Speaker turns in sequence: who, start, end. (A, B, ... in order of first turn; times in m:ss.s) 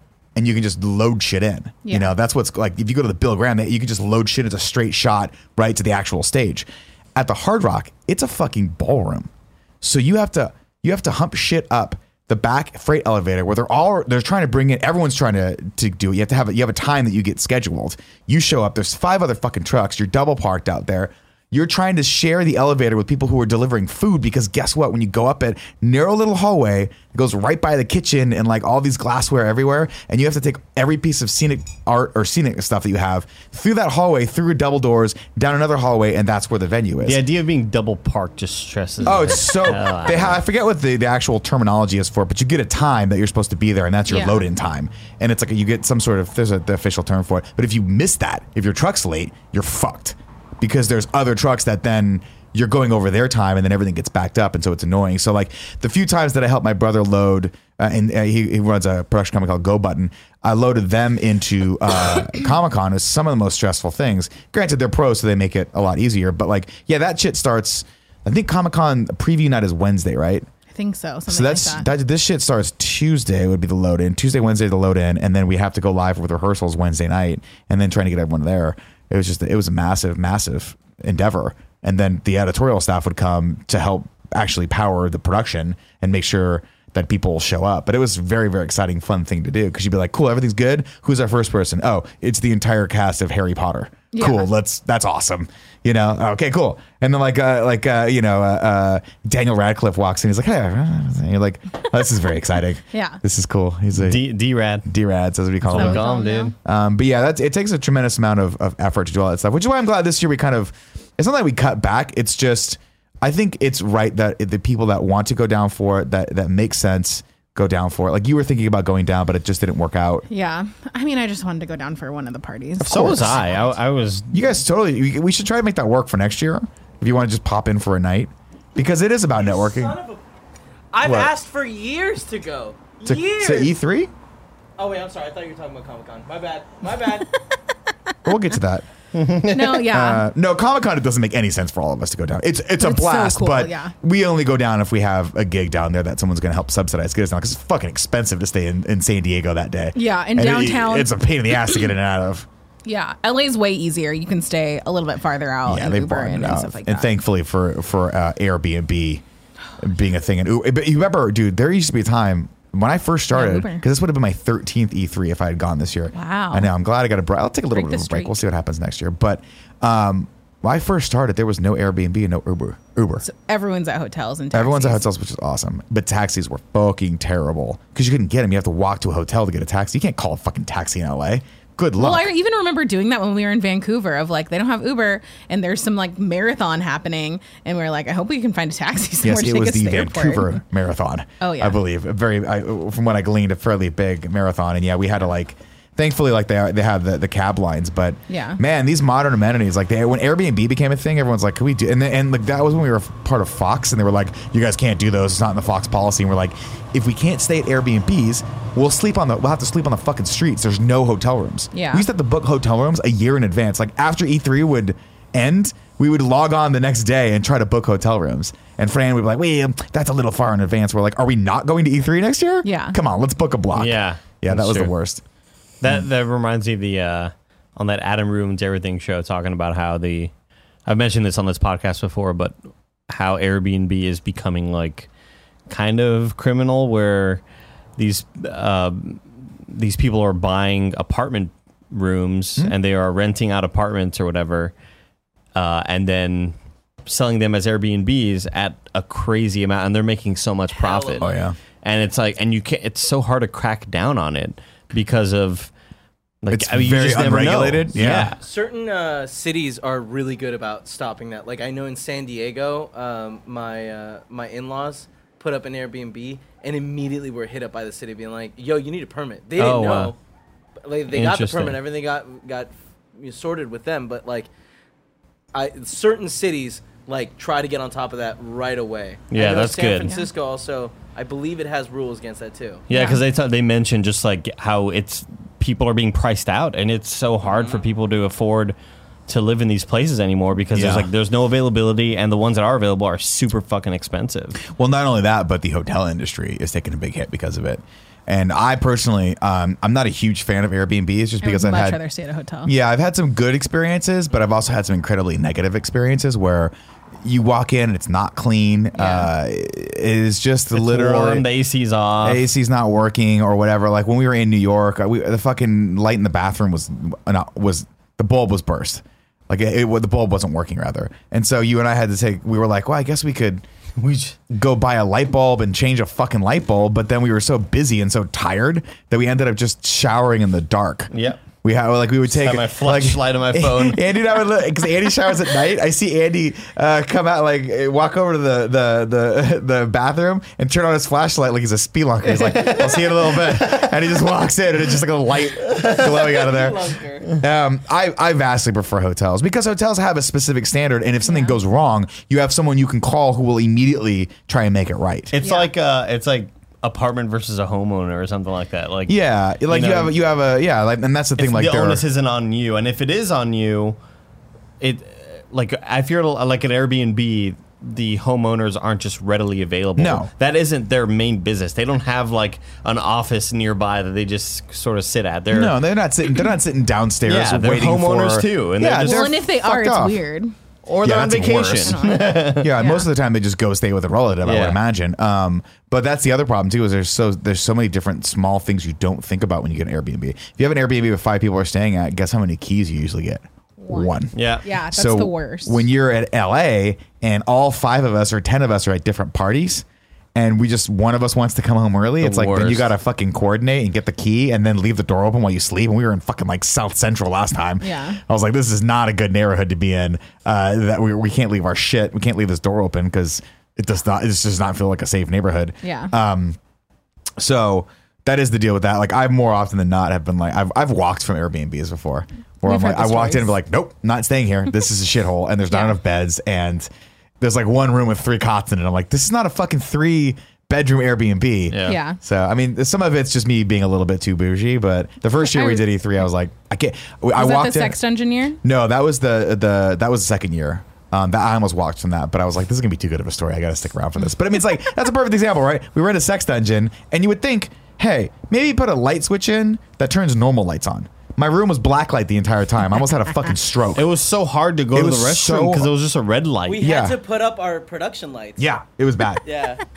0:00.4-0:09.3 A
0:01.8-0:02.1 B
0:09.8-0:37.2 A
0:37.0-0:40.4 C
0:39.0-1:10.5 A
0:44.1-0:44.4 B
1:10.7-1:11.9 B
1:11.3-1:44.3 A
1:34.1-1:34.5 B
1:42.9-1:43.2 B
1:43.9-1:44.9 C
1:44.8-1:46.1 A
1:45.6-1:46.5 C
1:45.7-1:46.5 B
1:46.6-2:00.2 A
2:00.3-2:03.4 B
2:02.8-2:03.4 A
2:02.8-2:04.4 C
2:04.3-2:10.0 A
2:09.3-2:10.2 D
2:10.9-2:13.7 D
2:11.0-2:11.3 A
2:13.0-2:14.1 A
2:14.8-2:17.3 D
2:18.2-2:18.8 A
2:19.1-2:20.1 C
2:19.5-2:20.2 B
2:19.9-2:32.5 A
2:22.8-2:23.9 B
2:29.9-2:31.9 B
2:32.8-2:37.1 B
2:35.6-2:39.2 A
2:39.8-2:53.2 A
2:43.3-2:43.8 B
2:46.1-2:46.7 B
2:47.7-2:48.4 B
2:53.2-2:55.0 B
2:54.5-3:02.3 A
3:02.0-3:10.6 B
3:09.2-3:45.2 A
3:11.4-3:11.8 B
3:18.3-3:18.6 B
3:31.7-3:32.0 B
3:42.6-3:43.0 B
3:43.7-3:44.9 C
3:45.8-3:50.3 C
3:50.8-3:52.5 C
3:53.1-3:55.1 C
3:55.7-3:57.4 C
3:58.0-4:04.7 C
4:05.5-4:06.5 C
4:07.0-4:11.3 C
4:10.7-4:11.4 D
4:11.2-4:11.6 A
4:11.8-4:15.7 C
4:16.4-4:18.4 C
4:16.5-4:18.3 A
4:18.4-4:30.2 D
4:29.6-4:30.1 C
4:30.8-4:34.5 D
4:31.1-4:31.8 C
4:35.5-4:42.8 D
4:39.3-4:40.1 C
4:42.9-4:48.7 C
4:42.9-4:43.2 B
4:47.5-4:47.8 D
4:49.3-4:54.6 C
4:50.7-4:51.1 A
4:54.7-5:02.0 A
5:01.4-5:02.7 B
5:02.6-5:11.5 A
5:08.9-5:09.3 B
5:10.7-5:12.4 C
5:12.2-5:23.6 A
5:24.0-5:24.4 C
5:24.5-5:31.1 A
5:31.1-5:31.4 C
5:31.6-5:55.4 A
5:32.3-5:34.0 C
5:42.3-5:43.9 C
5:45.8-5:47.4 D
5:51.2-5:51.6 B
5:55.3-5:59.2 C
5:55.4-5:55.7 B
5:59.1-6:02.0 A
5:59.7-6:00.1 C
6:01.4-6:04.0 C
6:04.8-6:15.8 C
6:10.0-6:10.3 A
6:15.5-6:20.2 A
6:17.2-6:19.3 C
6:19.0-6:20.5 B
6:20.8-6:22.7 C
6:21.0-6:56.6 A
6:21.8-6:23.1 B
6:24.4-6:24.8 C
6:33.8-6:35.8 B
6:34.3-6:34.6 C
6:42.2-6:42.9 C
6:47.8-6:48.2 B
6:55.8-6:56.1 B
6:57.4-7:06.9 A
7:02.6-7:03.5 B
7:05.7-7:06.0 B
7:07.4-7:18.0 A
7:11.7-7:12.0 C
7:11.8-7:12.2 B
7:15.4-7:15.8 B
7:17.3-7:18.6 B
7:18.6-7:34.1 A
7:33.9-7:36.8 C
7:34.9-7:35.9 A
7:36.7-7:38.7 D
7:36.8-7:37.2 A
7:38.6-7:39.4 A
7:39.4-7:39.8 D